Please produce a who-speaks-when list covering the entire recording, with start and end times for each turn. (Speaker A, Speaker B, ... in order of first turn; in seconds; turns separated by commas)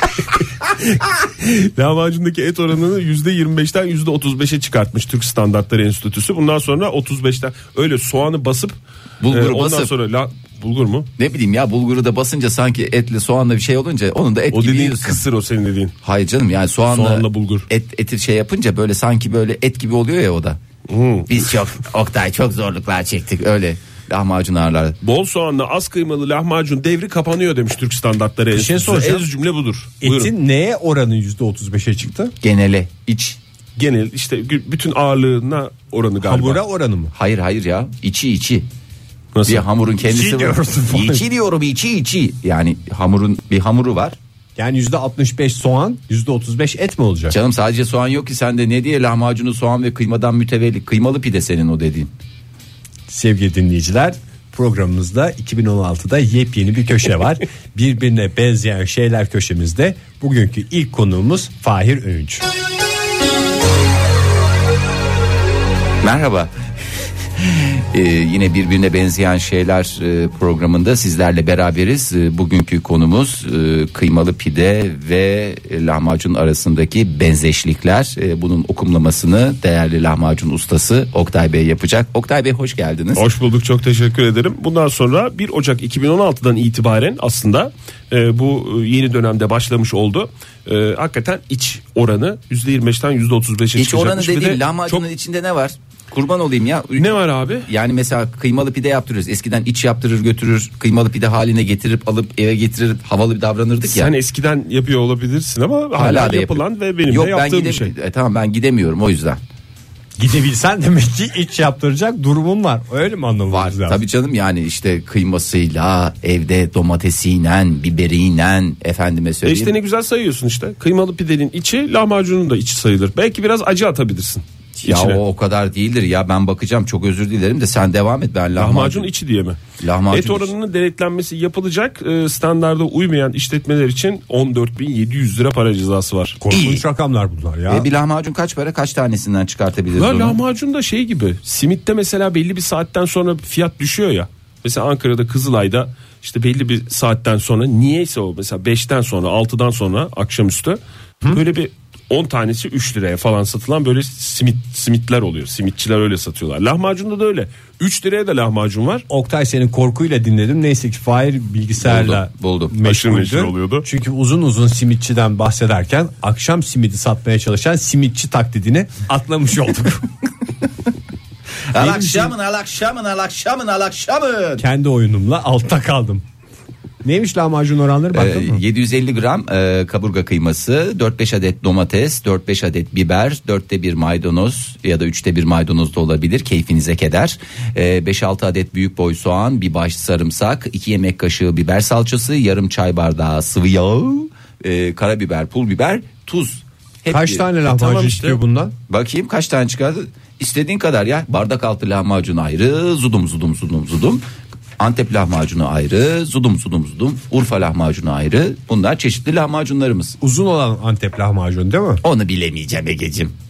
Speaker A: 1.2-8.8, Speaker B: 9.2-9.9, Speaker A: 9.3-11.1, Speaker B: 11.2-15.2, Speaker A: 14.5-15.9, Speaker B: 16.0-20.6, Speaker A: 16.9-17.7, Speaker A: 20.9-21.3, Speaker B: 21.3-25.0, Speaker A: 25.0-30.3, Speaker C: 28.5-29.3, Speaker C: 30.0-32.3, Speaker B: 32.4-33.4, Speaker A: 33.8-36.6, Speaker C: 36.2-37.1, Speaker B: 37.1-38.7, Speaker A: 39.3-39.6, Speaker B: 39.5-44.1, Speaker C: 40.0-41.2, Speaker C: 44.5-47.3, Speaker B: 47.3-52.1, Speaker C: 53.1-62.5, Speaker B: 66.0-66.5, Speaker B: 67.4-83.2, Speaker A: 83.1-95.0, Speaker B: 93.8-104.1, Speaker A: 97.0-97.7, Speaker A: 103.8-107.9, Speaker B: 106.0-109.4, Speaker C: 110.2-114.0, Speaker B: 113.5-119.7, Speaker A: 119.4-125.2, Speaker B: 124.8-129.1, Speaker A: 128.6-129.6, Speaker B: 129.8-130.5, Speaker A: 130.1-136.4, Speaker C: 136.4-137.9, Speaker B: 136.5-136.8, Speaker B: 137.7-140.4, Speaker A: 139.9-159.0, Speaker C: 159.1-170.1, Speaker B: 161.8-162.8, Speaker A: 162.8-163.8, Speaker B: 171.7-174.6, Speaker C: 171.8-172.3, Speaker C: 174.6-176.2, Speaker C: 177.0-178.6, Speaker B: 178.1-197.5, Speaker C: 197.1-198.7, Speaker A: 197.7-198.4, Speaker B: 198.9-204.2, Speaker B: 204.8-210.2, Speaker C: 210.2-212.0, Speaker B: 212.0-213.3